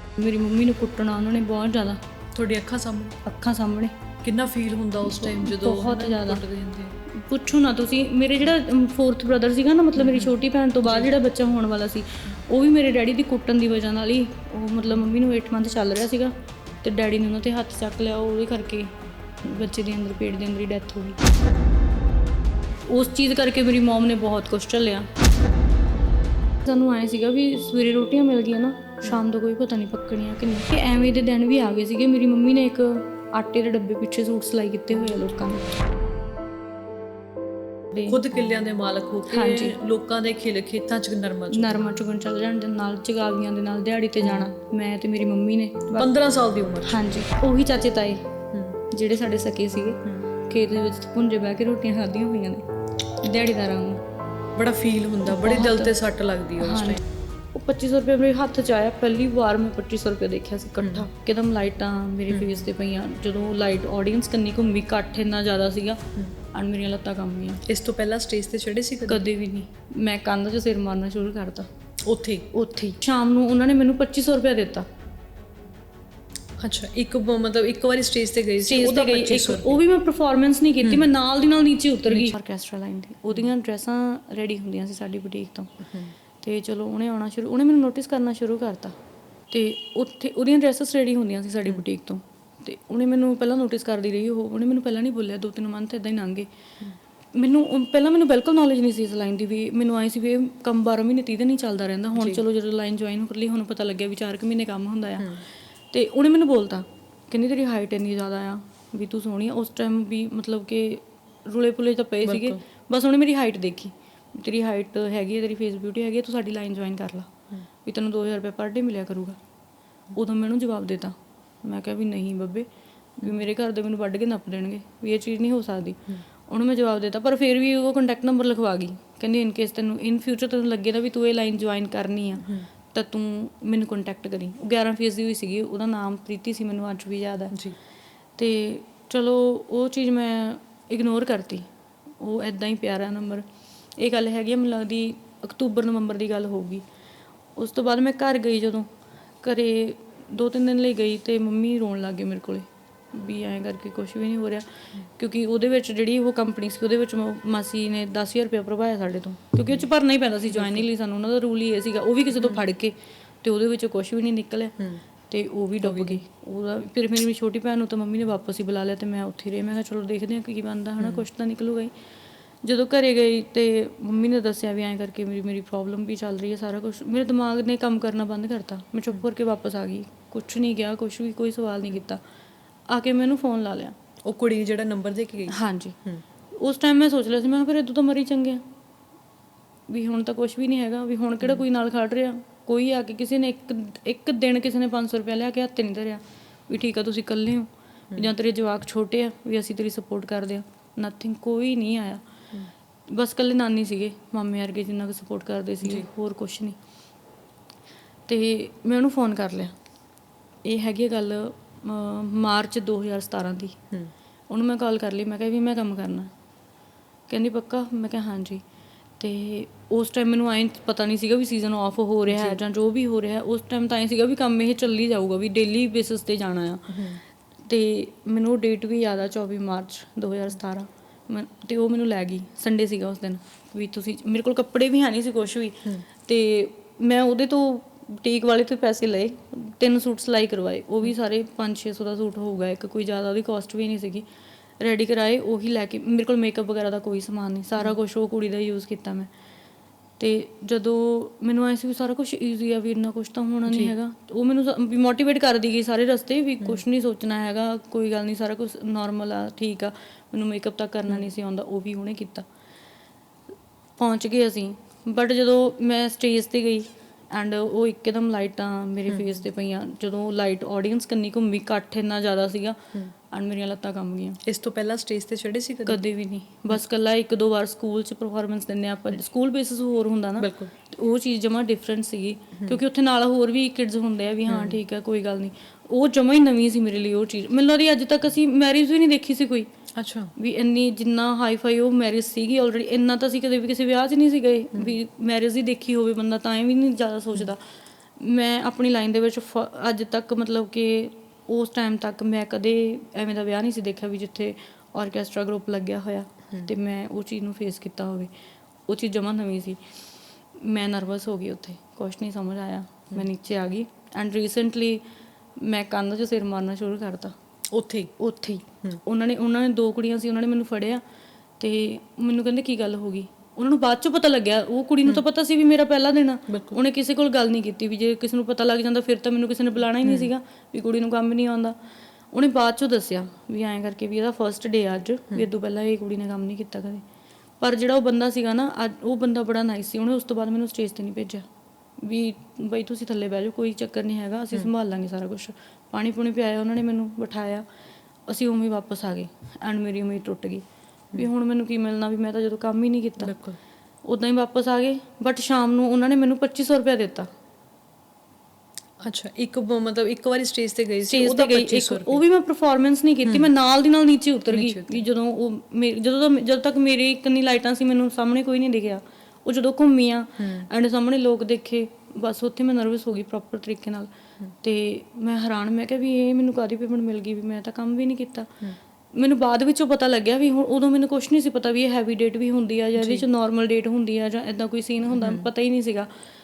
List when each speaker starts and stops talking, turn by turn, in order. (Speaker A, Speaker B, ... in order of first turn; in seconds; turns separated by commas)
Speaker A: 0.2-2.0, Speaker B: 2.4-3.2, Speaker A: 3.2-3.9, Speaker B: 4.2-7.0, Speaker A: 5.0-6.4, Speaker A: 7.1-16.3, Speaker B: 10.0-10.3, Speaker A: 16.8-21.2, Speaker A: 22.9-25.1, Speaker A: 26.6-35.8, Speaker A: 37.9-38.2, Speaker B: 38.1-41.8, Speaker A: 39.3-39.8, Speaker A: 41.5-46.1, Speaker B: 45.9-47.0, Speaker A: 46.9-48.2, Speaker B: 48.5-48.8, Speaker A: 48.9-52.6, Speaker A: 53.2-54.0, Speaker B: 54.6-57.0, Speaker A: 55.3-56.0, Speaker A: 56.6-57.0, Speaker A: 57.5-66.0, Speaker A: 66.5-67.6, Speaker B: 67.7-69.2, Speaker A: 69.1-71.7, Speaker B: 72.0-72.5, Speaker A: 72.5-74.9, Speaker B: 76.6-79.8, Speaker A: 78.7-85.7, Speaker B: 82.1-82.3, Speaker B: 85.9-86.1, Speaker A: 86.4-89.0, Speaker A: 89.5-96.5, Speaker A: 97.3-117.3, Speaker B: 112.2-112.6, Speaker A: 117.8-119.4, Speaker A: 120.1-137.6, Speaker A: 138.4-141.7, Speaker A: 142.2-143.4, Speaker A: 144.0-146.8, Speaker A: 147.6-148.9, Speaker A: 149.4-164.8, Speaker B: 160.5-160.8, Speaker A: 165.3-171.9, Speaker B: 165.8-166.2, Speaker A: 172.6-182.2, Speaker A: 182.9-183.9, Speaker B: 184.2-186.2, Speaker A: 185.5-186.0, Speaker A: 186.5-188.6, Speaker A: 189.9-202.2, Speaker A: 203.1-206.8, Speaker A: 208.3-209.8, Speaker A: 210.6-213.8, Speaker A: 214.5-216.3, Speaker A: 217.3-218.6, Speaker A: 219.2-227.0, Speaker B: 222.3-222.6, Speaker B: 226.9-227.2, Speaker A: 227.7-244.2, Speaker A: 244.8-249.3, Speaker A: 250.2-262.4, Speaker A: 264.0-272.8, Speaker A: 273.3-274.4, Speaker B: 274.4-276.0, Speaker A: 275.9-289.7, Speaker B: 280.4-280.7, Speaker B: 284.5-284.8, Speaker B: 289.9-290.3, Speaker A: 290.4-297.6, Speaker A: 298.2-308.3, Speaker A: 308.9-309.8, Speaker A: 310.6-315.0, Speaker A: 315.6-317.3, Speaker B: 317.7-318.1, Speaker A: 318.2-321.0, Speaker A: 321.6-331.8, Speaker B: 326.5-326.8, Speaker A: 332.3-337.0, Speaker A: 337.6-341.4, Speaker A: 342.0-347.6, Speaker A: 348.3-350.6, Speaker A: 351.1-353.4, Speaker B: 353.2-353.6, Speaker A: 354.1-357.3, Speaker B: 359.0-362.2, Speaker A: 361.1-374.1, Speaker B: 364.5-365.1, Speaker B: 370.4-370.7, Speaker A: 374.6-378.6, Speaker A: 379.2-386.1, Speaker B: 383.0-383.2, Speaker B: 385.2-385.5